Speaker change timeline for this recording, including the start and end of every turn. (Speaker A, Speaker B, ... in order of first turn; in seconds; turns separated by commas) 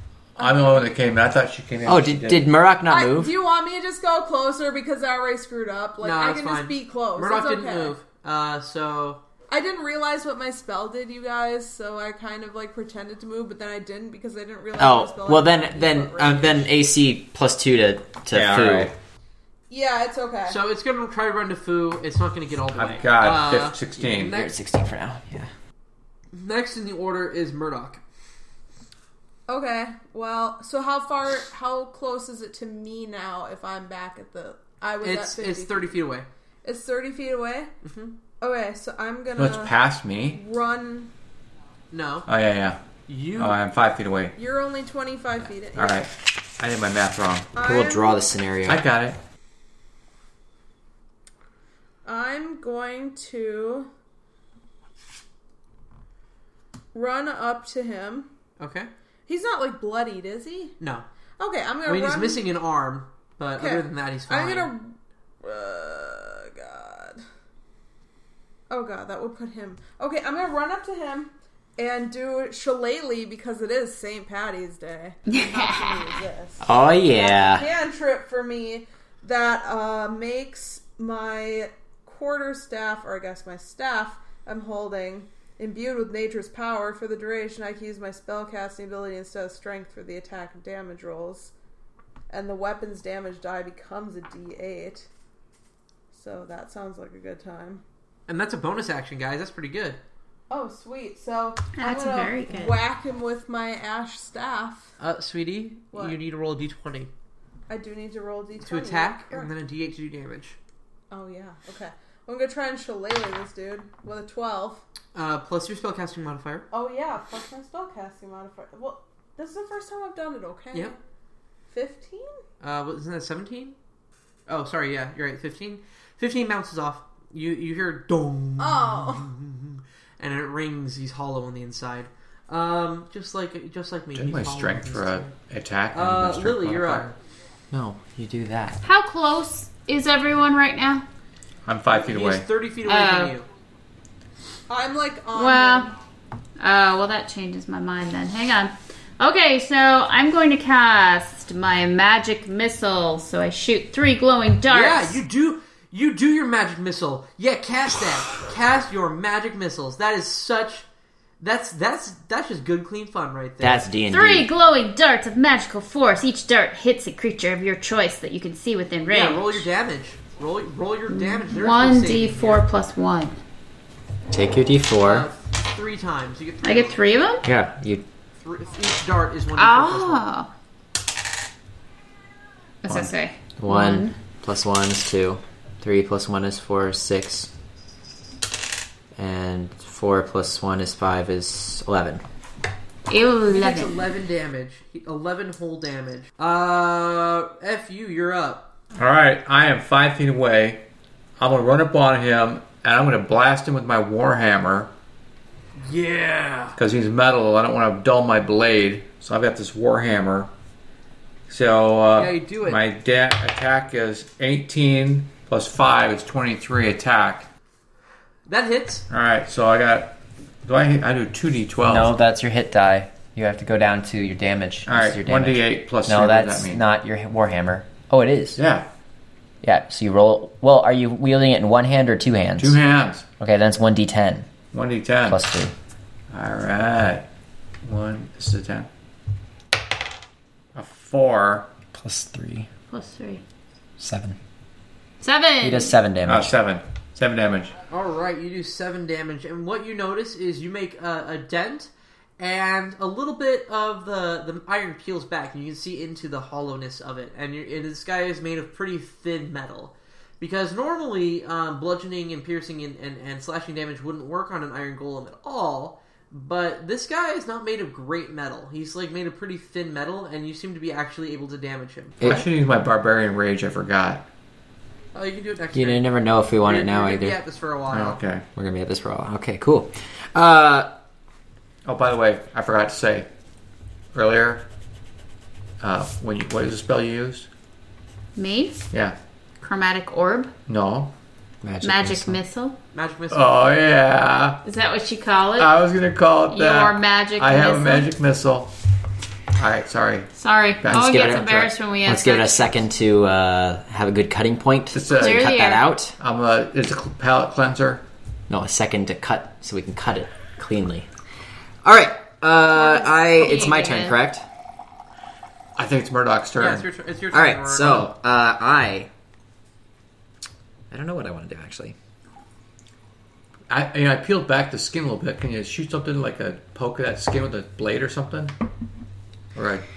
Speaker A: 0.4-0.9, Speaker B: 0.4-2.5, Speaker C: 1.8-3.3, Speaker A: 2.9-8.0, Speaker D: 6.0-9.2, Speaker A: 9.5-16.7, Speaker C: 14.8-18.9, Speaker B: 18.3-18.9, Speaker A: 19.7-20.6, Speaker D: 20.4-24.5, Speaker B: 22.7-24.4, Speaker C: 24.1-25.5, Speaker D: 26.3-28.0, Speaker A: 29.5-36.0, Speaker D: 35.0-36.3, Speaker A: 36.6-37.7, Speaker D: 37.8-38.1, Speaker A: 38.4-39.7, Speaker B: 39.4-40.4, Speaker A: 40.3-41.1, Speaker D: 41.9-42.3, Speaker B: 42.3-42.8, Speaker D: 43.1-43.6, Speaker B: 43.4-44.3, Speaker A: 44.4-46.0, Speaker B: 45.7-47.5, Speaker A: 47.5-48.2, Speaker C: 47.6-48.8, Speaker B: 48.6-49.2, Speaker A: 52.0-53.9, Speaker A: 56.9-58.3, Speaker D: 58.6-58.9, Speaker A: 59.3-60.8, Speaker D: 60.8-61.0, Speaker A: 61.4-62.5, Speaker D: 61.8-64.7, Speaker A: 63.6-67.2, Speaker A: 68.7-91.5, Speaker E: 75.3-76.0, Speaker C: 76.6-77.7, Speaker A: 92.3-95.1, Speaker A: 96.1-97.8, Speaker D: 98.3-100.0, Speaker A: 100.5-104.9, Speaker E: 101.8-102.8, Speaker D: 105.0-107.1, Speaker A: 105.9-106.2, Speaker A: 107.7-109.5, Speaker D: 108.6-110.6, Speaker A: 111.1-114.8, Speaker D: 115.1-116.7, Speaker A: 116.7-121.0, Speaker A: 121.7-122.4, Speaker D: 122.6-123.8, Speaker D: 124.5-135.3, Speaker A: 128.6-129.3, Speaker B: 134.1-137.1, Speaker D: 135.9-137.1, Speaker C: 137.7-138.8, Speaker E: 138.8-141.0, Speaker B: 141.7-142.4, Speaker D: 141.9-143.5, Speaker E: 142.8-143.3, Speaker A: 144.7-145.9, Speaker E: 145.3-145.9, Speaker E: 146.6-155.2, Speaker D: 154.7-160.8, Speaker D: 161.4-163.8, Speaker C: 163.6-164.5, Speaker E: 164.1-169.7, Speaker D: 169.1-172.6, Speaker E: 171.1-173.4, Speaker C: 174.3-175.3, Speaker D: 175.0-177.0, Speaker E: 176.6-177.4, Speaker C: 177.4-178.0, Speaker D: 178.4-180.2, Speaker E: 179.6-180.5, Speaker E: 182.8-184.1, Speaker C: 183.6-187.5, Speaker C: 189.1-192.2, Speaker E: 193.1-194.1, Speaker D: 193.5-198.7, Speaker B: 198.9-200.8, Speaker B: 201.4-204.9, Speaker D: 205.8-206.8, Speaker B: 206.8-210.5, Speaker B: 211.5-217.5, Speaker D: 212.2-212.8, Speaker D: 218.5-219.1, Speaker B: 219.1-222.2, Speaker C: 221.9-228.6, Speaker B: 224.8-226.8, Speaker B: 228.6-228.8, Speaker C: 229.6-232.8, Speaker B: 232.6-233.3, Speaker C: 233.4-234.5, Speaker B: 234.7-235.4, Speaker C: 235.2-235.7, Speaker B: 236.3-237.2, Speaker B: 237.8-238.9, Speaker B: 240.7-241.7, Speaker C: 241.9-242.7, Speaker E: 242.9-243.4, Speaker C: 244.0-244.4, Speaker E: 245.2-245.9, Speaker C: 245.6-246.5, Speaker B: 246.2-247.8, Speaker D: 247.9-272.2, Speaker C: 272.2-272.4, Speaker B: 272.2-274.2, Speaker D: 275.1-278.2, Speaker C: 275.7-277.4, Speaker B: 277.9-278.4, Speaker C: 278.5-280.9, Speaker B: 281.9-283.3, Speaker B: 284.1-284.6, Speaker B: 285.8-287.5, Speaker E: 288.4-288.8, Speaker E: 289.6-290.5, Speaker B: 290.7-291.1, Speaker C: 291.6-292.4, Speaker E: 291.8-292.8, Speaker D: 292.9-293.6, Speaker B: 293.3-294.6, Speaker E: 294.6-295.7, Speaker B: 295.6-298.7, Speaker E: 296.5-298.1, Speaker B: 299.6-300.3, Speaker E: 300.4-302.8, Speaker B: 300.8-301.5, Speaker C: 300.9-306.1, Speaker B: 304.9-305.5, Speaker E: 305.1-305.9, Speaker B: 306.2-308.0, Speaker C: 308.5-311.1, Speaker C: 311.8-314.4, Speaker E: 312.7-314.2, Speaker B: 315.8-316.9, Speaker D: 316.6-318.1, Speaker C: 317.3-319.1, Speaker C: 320.9-321.9, Speaker B: 323.7-328.5, Speaker B: 329.5-329.8